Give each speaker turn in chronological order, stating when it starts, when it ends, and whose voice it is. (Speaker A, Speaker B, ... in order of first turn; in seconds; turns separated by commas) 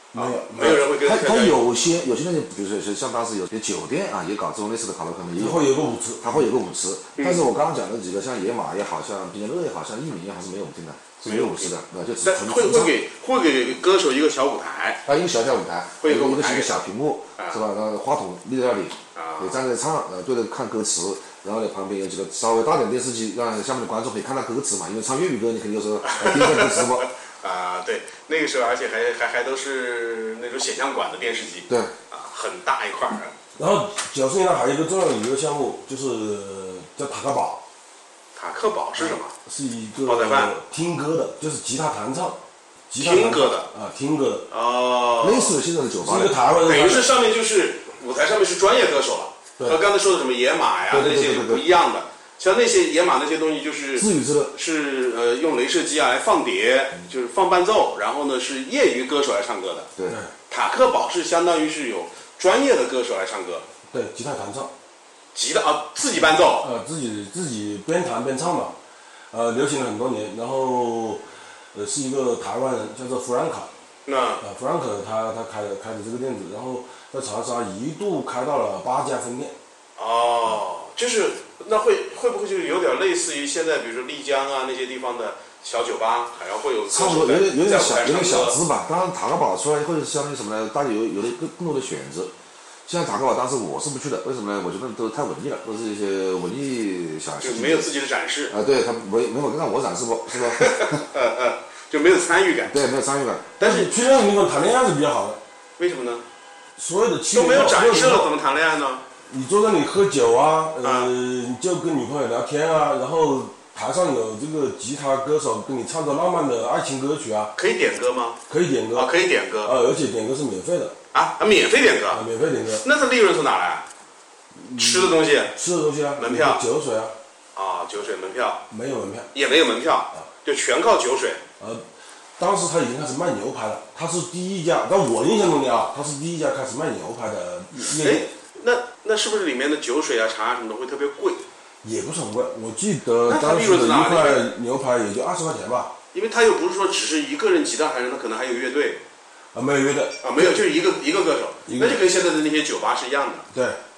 Speaker A: 0.1-1.7, Speaker B: 0.1-0.9, Speaker C: 0.9-13.0, Speaker B: 5.4-6.5, Speaker A: 7.2-7.5, Speaker A: 11.2-15.0, Speaker C: 15.1-27.1, Speaker A: 16.0-16.9, Speaker A: 19.1-19.6, Speaker A: 26.1-33.4, Speaker C: 31.7-31.9, Speaker B: 33.6-37.6, Speaker A: 38.4-39.3, Speaker B: 39.0-42.4, Speaker A: 40.0-40.5, Speaker B: 42.9-44.5, Speaker A: 43.0-43.7, Speaker A: 44.5-45.6, Speaker C: 45.2-46.4, Speaker B: 46.0-47.1, Speaker A: 46.6-59.9, Speaker C: 50.9-51.6, Speaker C: 54.0-54.5, Speaker A: 60.5-63.7, Speaker B: 63.9-64.7, Speaker A: 65.3-66.7, Speaker B: 66.6-68.7, Speaker B: 69.3-73.7, Speaker A: 74.1-74.4, Speaker B: 74.4-79.5, Speaker A: 80.0-88.6, Speaker C: 86.9-92.3, Speaker C: 92.9-97.9, Speaker A: 97.4-98.5, Speaker C: 98.5-101.0, Speaker A: 100.5-102.8, Speaker C: 102.7-103.5, Speaker A: 103.6-103.9, Speaker B: 103.6-105.4, Speaker A: 105.8-106.2, Speaker B: 106.8-108.3, Speaker A: 107.3-109.0, Speaker B: 109.3-117.5, Speaker A: 110.8-111.1, Speaker A: 117.6-118.4, Speaker B: 118.5-119.1, Speaker A: 118.9-119.7, Speaker B: 119.6-121.0, Speaker A: 121.1-123.9, Speaker B: 122.1-122.8, Speaker B: 124.5-127.2, Speaker A: 124.8-125.5, Speaker A: 126.2-126.6, Speaker A: 127.5-128.7, Speaker B: 128.7-129.3, Speaker A: 129.3-131.4, Speaker B: 131.6-131.8, Speaker B: 132.4-138.3, Speaker A: 138.0-141.4, Speaker B: 141.8-145.9, Speaker A: 143.2-144.5, Speaker A: 146.1-149.0, Speaker B: 149.5-150.6, Speaker A: 150.2-153.5, Speaker B: 151.7-152.0, Speaker B: 153.5-153.8